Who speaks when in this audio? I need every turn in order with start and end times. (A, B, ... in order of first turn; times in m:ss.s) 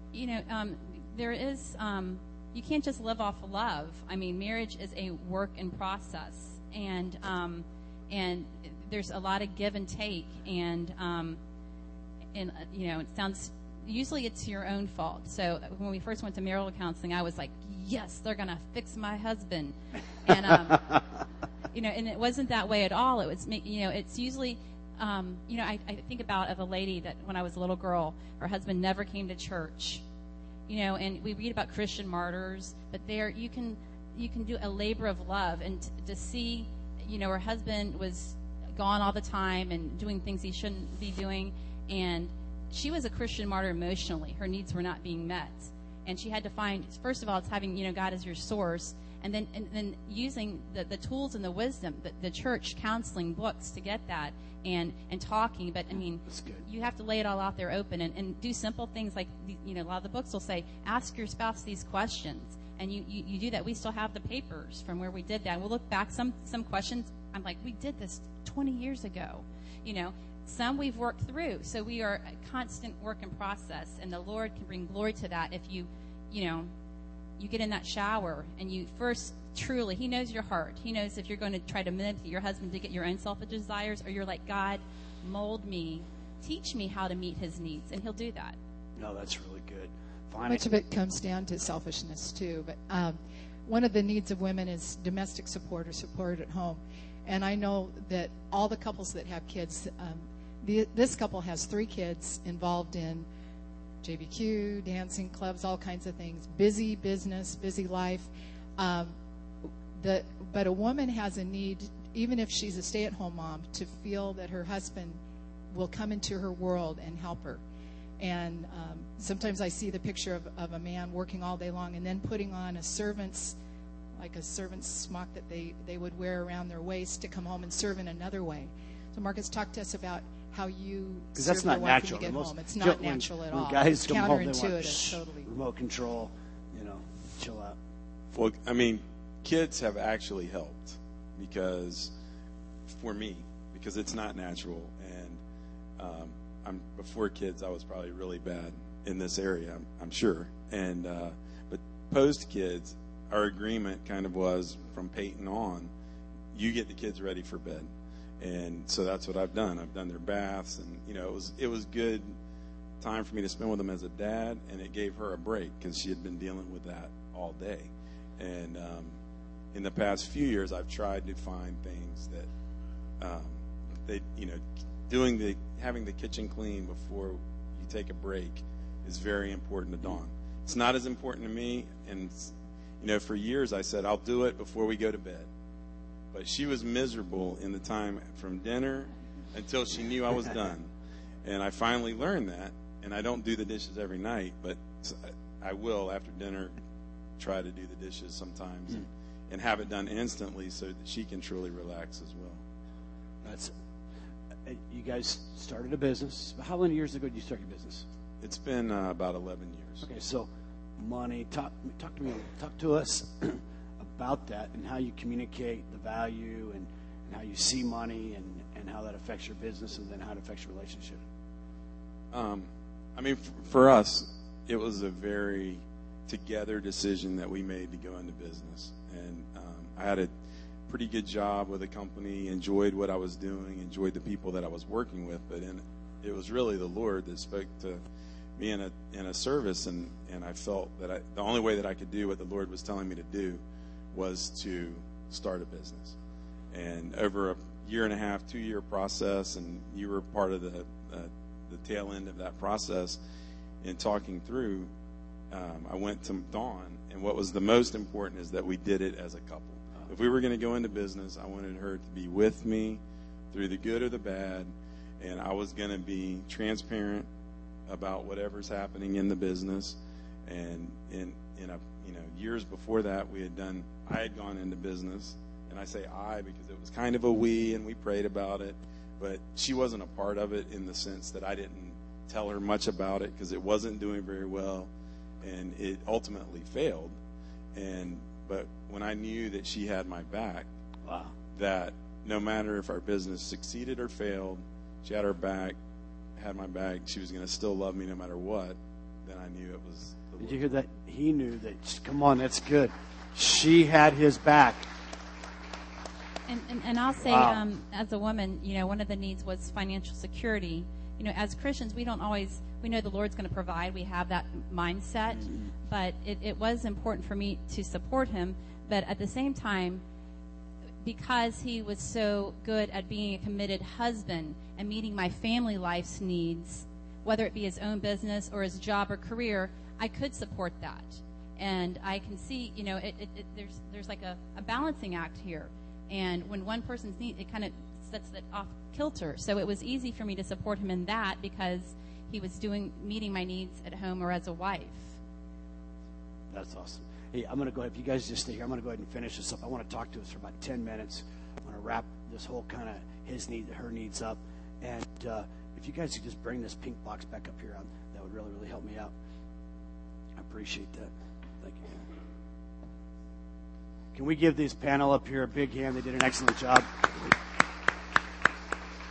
0:00.1-0:11.4 A
0:12.3-0:21.0 A
0:21.7-0:30.0 A
0:30.7-1:16.7 A
0:56.3-0:56.6 B
1:17.4-1:28.6 A
1:29.0-1:30.7 B
1:30.5-1:43.2 C
1:44.0-1:49.1 C
1:50.0-1:55.2 C
1:55.7-1:57.6 C
1:58.2-2:03.6 C
2:04.2-2:15.5 C
2:11.4-2:17.8 B
2:18.3-2:22.1 D
2:22.9-2:25.4 D
2:26.0-2:35.9 D
2:36.5-2:37.9 D
2:38.4-2:42.3 D
2:43.0-2:49.1 D
2:49.7-2:52.5 D
2:53.2-3:05.5 D
3:06.3-3:10.9 D
3:11.4-3:16.7 D
3:17.4-3:22.6 D
3:23.4-3:23.7 B
3:24.6-3:28.0 B
3:28.4-3:30.0 D
3:30.0-3:41.2 B
3:42.3-3:50.3 D
3:50.9-3:58.0 D
3:58.6-4:03.6 D
4:04.1-4:06.2 D
4:06.7-4:13.2 D
4:13.8-4:14.9 D
4:15.5-4:23.0 D
4:23.5-4:27.3 D
4:27.9-4:44.9 D
4:45.4-4:47.1 D
4:47.7-4:50.7 D
4:51.0-4:51.3 B
4:51.5-4:55.7 D
4:56.4-5:00.6 D
5:00.4-5:04.9 B
5:06.5-5:20.0 A
5:07.2-5:07.6 B
5:15.4-5:15.7 B
5:21.0-5:45.1 A
5:46.5-5:59.1 B
6:00.4-6:02.0 B
6:04.1-6:07.3 B